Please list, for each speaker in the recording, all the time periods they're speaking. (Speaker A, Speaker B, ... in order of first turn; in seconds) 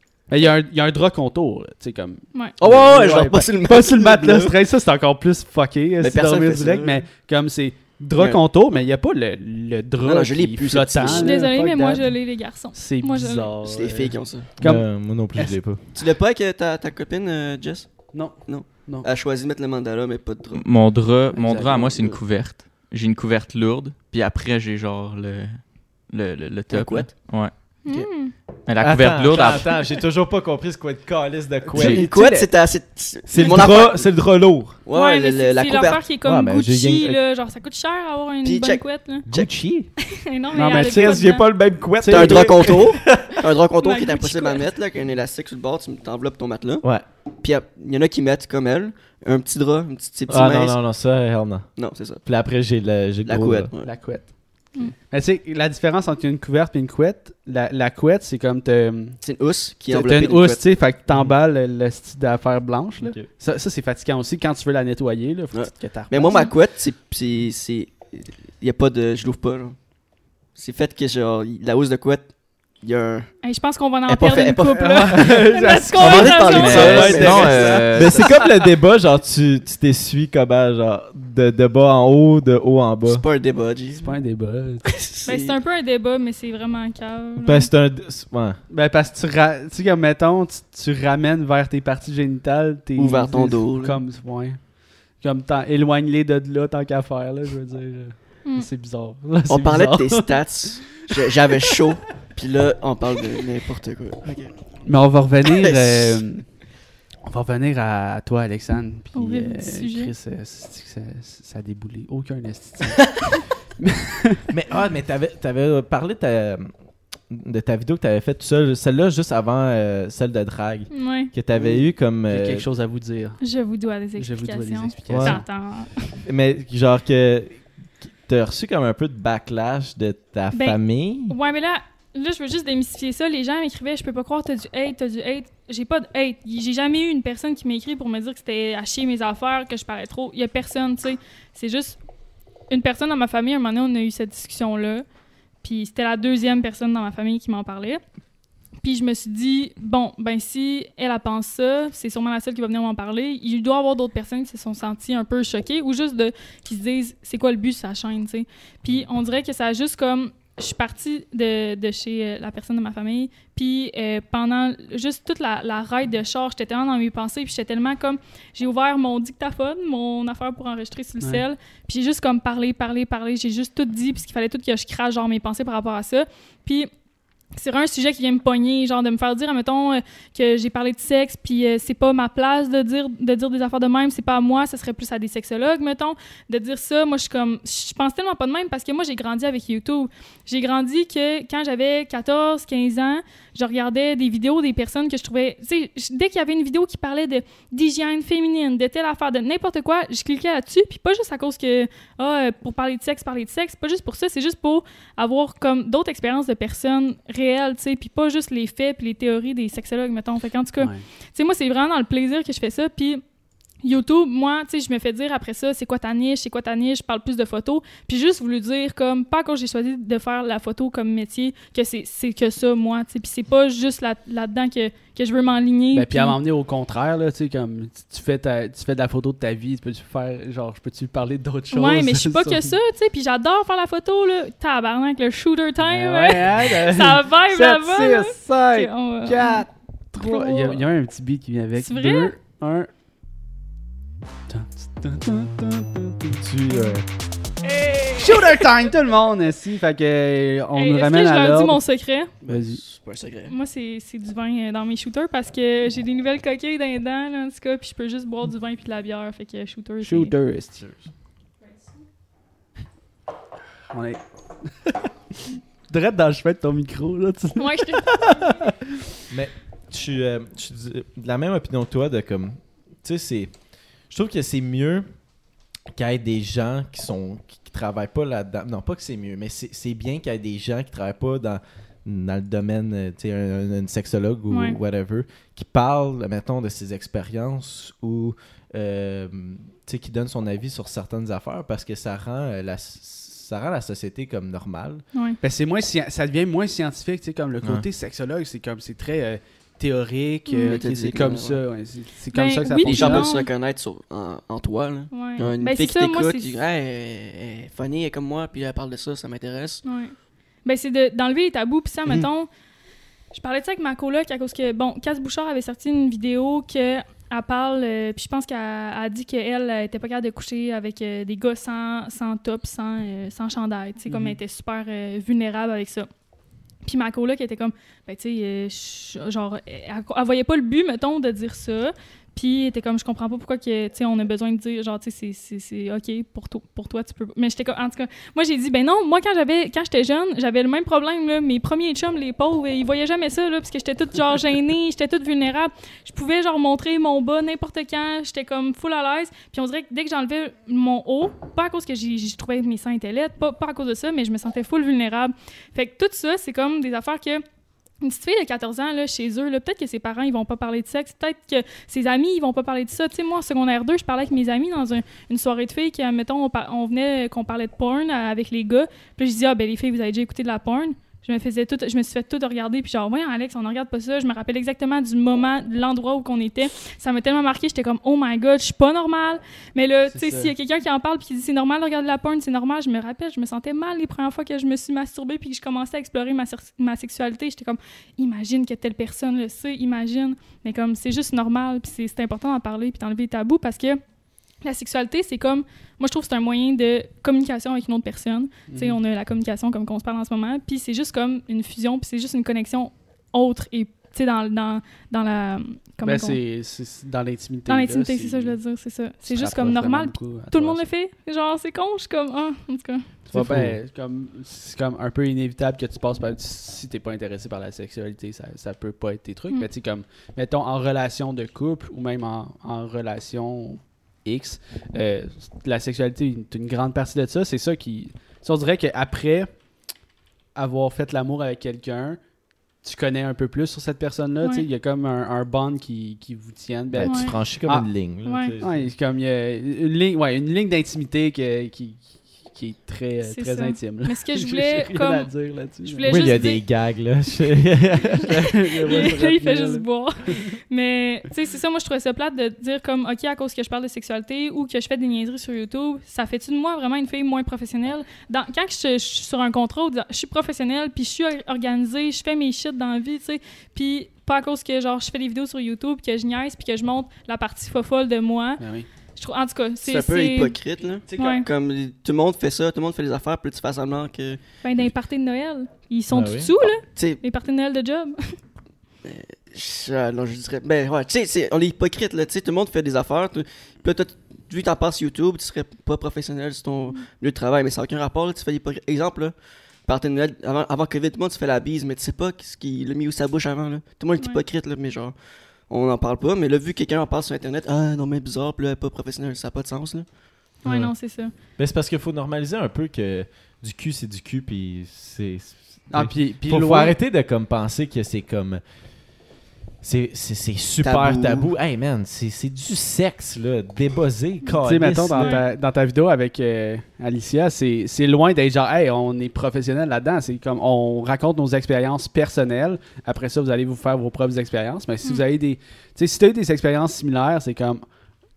Speaker A: 0.3-12.1, 12.7-15.6, 18.1-19.1, 21.4-22.2, 31.7-32.1, 40.5-42.7, 53.8-59.2, 59.9-66.5, 74.4-78.4, 84.0-84.9, 88.7-100.4, 101.1-101.7, 104.8-106.5, 107.2-113.2, 113.8-114.5, 121.6-123.4, 124.2-125.4, 210.8-211.0, 225.9-232.8, 235.8-242.9, 244.5-246.4, 248.2-251.8, 252.5-252.8, 260.0-260.8, 263.9-268.9, 295.4-303.3, 324.1-324.4, 380.1-380.5, 398.7-399.0, 406.0-408.6, 409.3-410.8, 413.3-429.5, 430.5-432.2, 432.8-437.9, 438.6-446.2, 448.2-449.8, 468.6-468.9, 505.9-507.0, 514.6-527.8
Speaker B: 2.6-4.5, 6.0-7.0, 10.0-11.4, 13.6-14.5, 15.9-20.7, 21.5-22.2, 26.7-28.1, 31.7-34.1, 34.8-36.0, 38.4-39.5, 42.1-46.9, 47.4-50.8, 51.7-52.2, 53.2-53.9, 59.2-60.7, 65.5-69.9, 70.5-73.3, 74.1-75.2, 76.0-78.3, 83.0-84.1, 84.8-85.5, 93.0-94.0, 99.5-104.5, 105.4-106.2, 252.4-253.5, 300.6-301.6, 302.8-309.8, 469.8-474.4, 476.9-477.2, 479.0-489.3, 489.8-495.1, 495.7-500.1, 510.8-511.5
Speaker C: 11.0-13.5, 27.8-28.3, 34.9-39.2, 40.1-41.5, 43.8-44.6, 73.4-77.0, 85.2-87.7, 109.1-110.1, 120.9-121.3, 123.4-126.2, 130.5-142.0, 142.7-145.0, 145.6-148.0, 148.8-176.9, 177.5-213.2, 213.8-226.4, 231.7-240.8, 241.8-242.3, 247.6-248.8, 250.7-252.3, 253.5-260.3, 267.6-268.6, 284.5-284.8, 295.1-295.4, 300.5-300.8, 302.3-303.5, 305.1-306.6, 309.8-312.5, 313.3-326.1, 326.8-357.4, 358.0-394.0, 394.6-406.4, 407.7-413.1, 437.0-437.4, 438.2-438.5, 443.2-445.3, 445.8-446.6, 448.1-468.6, 469.1-470.6, 471.1-471.4, 474.6-478.4, 500.6-501.3, 515.2-515.5
Speaker D: 14.6-15.8, 28.8-32.5, 33.2-34.8, 36.2-37.2, 39.3-39.9, 40.7-43.4, 50.3-53.7, 63.0-63.3, 76.7-83.2, 87.4-88.6, 114.5-116.7, 117.3-122.6, 125.1-125.4, 126.2-131.3, 246.4-247.0, 269.3-273.5, 274.1-275.1, 275.9-295.0, 413.3-413.8, 436.9-438.9, 446.1-448.4, 476.1-476.5, 500.6-500.9, 501.6-508.6, 509.8-515.4
Speaker E: 20.5-27.8, 28.6-29.8, 76.5-78.3